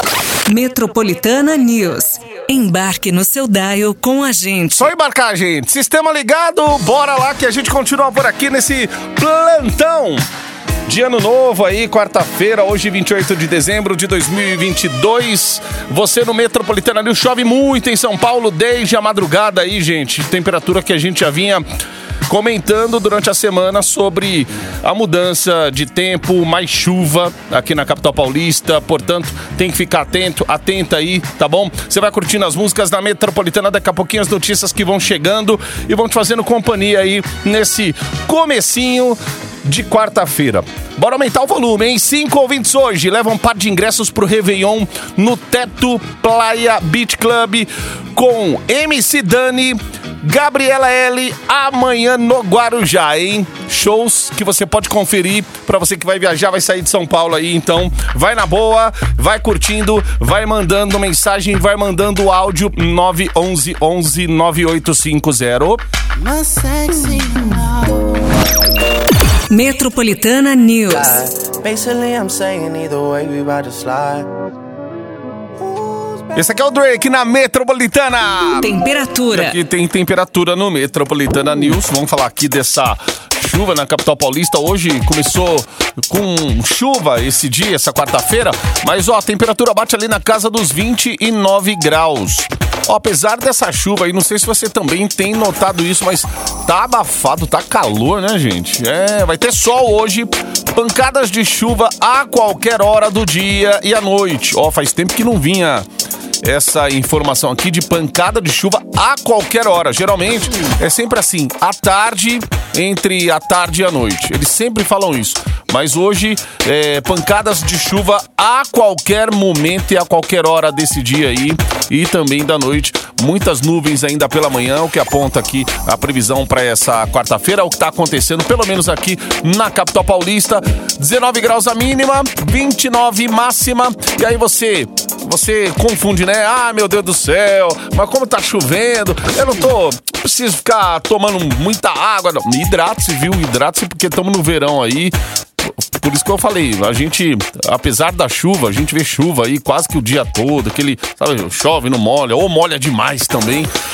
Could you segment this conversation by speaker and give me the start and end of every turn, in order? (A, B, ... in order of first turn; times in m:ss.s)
0:00.5-0:04.9 A
0:04.7-0:10.2 B
0:10.8-0:21.6 B
0:22.3-1:05.8 B
1:06.2-1:08.1 C
1:09.5-1:11.2 A
1:10.9-1:14.3 C
1:16.3-1:18.7 B
1:18.6-1:19.6 A
1:19.3-1:45.8 B
1:46.4-2:33.7 B